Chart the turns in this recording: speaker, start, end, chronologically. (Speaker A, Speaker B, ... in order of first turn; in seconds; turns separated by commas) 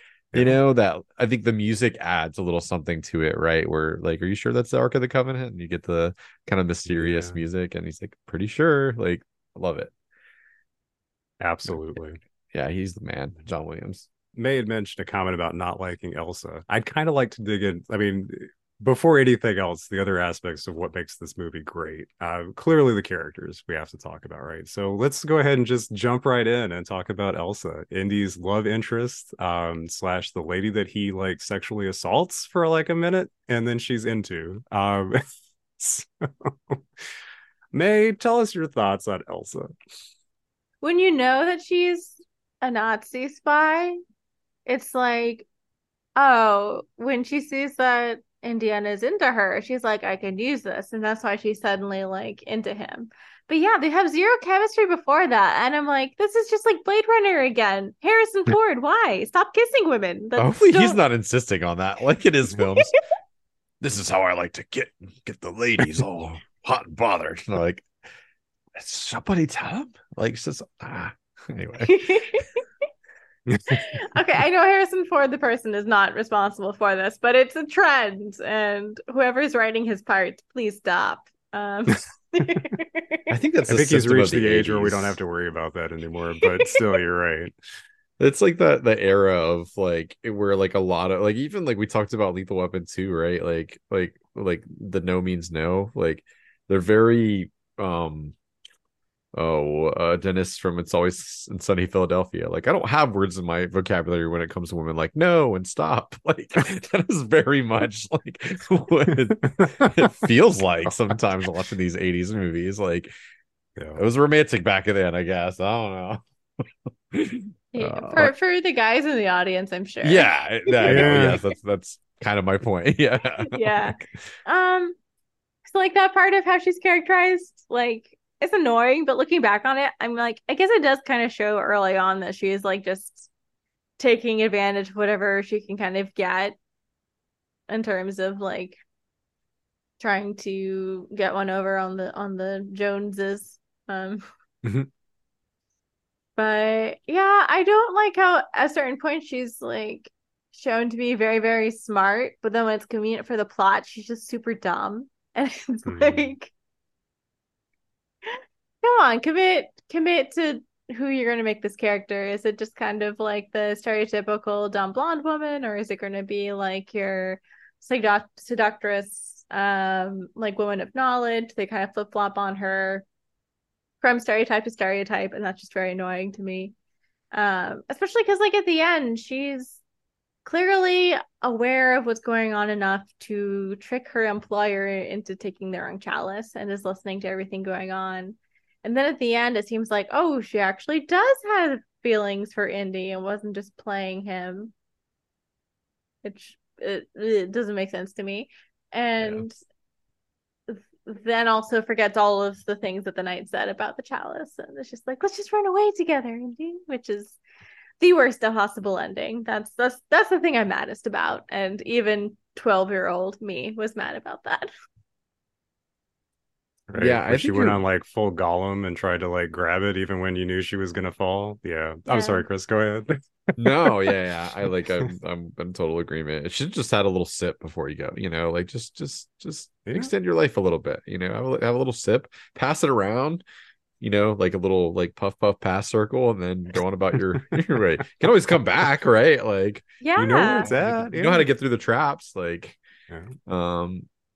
Speaker A: 0.3-0.6, Speaker B: 0.3-9.9, Speaker A: 6.8-7.4, Speaker A: 11.4-12.2, Speaker B: 12.5-14.1, Speaker A: 14.3-35.2, Speaker A: 35.8-36.8, Speaker A: 37.7-39.7, Speaker C: 40.8-44.0, Speaker C: 44.6-45.5, Speaker C: 46.1-61.0, Speaker B: 60.4-63.0, Speaker B: 63.8-67.9, Speaker B: 68.8-72.4, Speaker C: 71.8-72.5, Speaker A: 73.5-73.8, Speaker C: 73.7-83.2, Speaker B: 83.3-85.2, Speaker A: 83.7-87.5, Speaker B: 88.2-98.3, Speaker B: 99.3-113.1, Speaker A: 109.6-110.0, Speaker B: 114.0-118.3, Speaker C: 117.7-121.2, Speaker B: 120.0-124.1, Speaker A: 120.8-121.4, Speaker C: 123.4-125.0, Speaker C: 125.7-133.3, Speaker C: 134.0-136.6, Speaker C: 137.7-138.8, Speaker C: 140.0-144.2, Speaker C: 146.4-156.5, Speaker A: 155.8-156.3, Speaker C: 158.3-173.0, Speaker C: 174.0-176.7, Speaker C: 177.3-179.8, Speaker C: 180.4-194.7, Speaker C: 196.2-199.6, Speaker C: 200.7-207.4, Speaker C: 208.0-214.7, Speaker A: 216.9-224.2, Speaker B: 217.0-217.8, Speaker C: 222.1-222.4, Speaker B: 223.6-233.4, Speaker A: 229.8-230.1, Speaker B: 234.0-239.9, Speaker C: 240.0-240.7, Speaker A: 240.2-241.5, Speaker B: 240.6-242.8, Speaker A: 243.1-243.3, Speaker B: 243.5-244.1